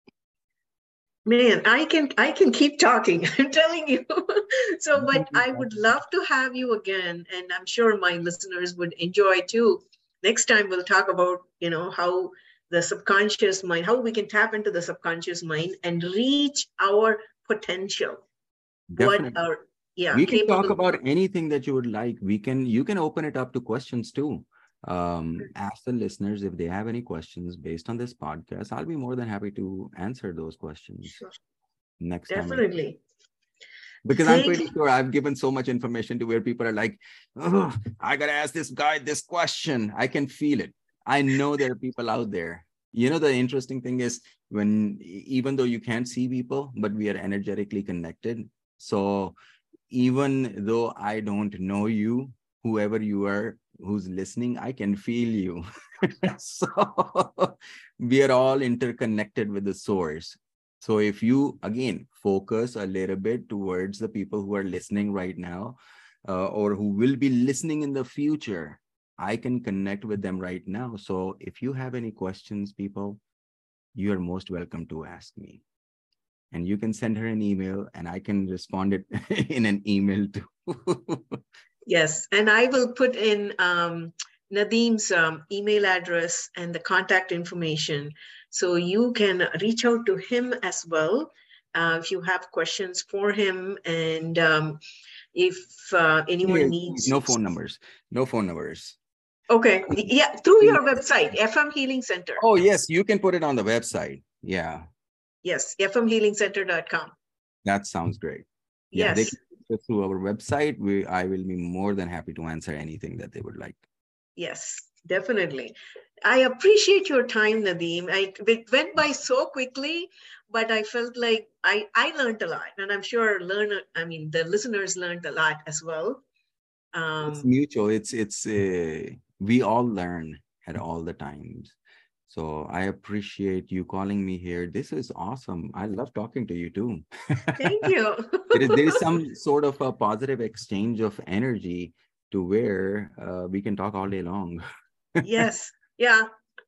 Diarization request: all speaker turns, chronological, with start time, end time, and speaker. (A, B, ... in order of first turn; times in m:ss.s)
0:01.2-0:18.2 A
0:04.9-0:05.7 B
0:18.9-0:19.4 B
0:19.0-0:20.7 A
0:20.1-0:31.2 B
0:32.0-0:32.6 B
0:32.3-0:33.0 A
0:34.0-0:49.4 B
0:34.2-0:34.7 A
0:49.9-1:13.2 B
1:13.9-1:15.6 B
1:16.5-1:21.4 B
1:21.9-1:34.8 A
1:35.3-1:37.3 A
1:36.4-1:39.0 B
1:39.5-1:42.4 A
1:42.4-1:44.8 B
1:45.4-1:47.1 A
1:47.6-1:53.8 B
1:48.9-1:49.3 A
1:54.4-2:06.2 A
2:06.9-2:07.5 A
2:07.3-2:11.8 B
2:12.3-2:17.7 B
2:17.6-2:19.0 A
2:18.5-2:24.6 B
2:25.2-2:26.3 A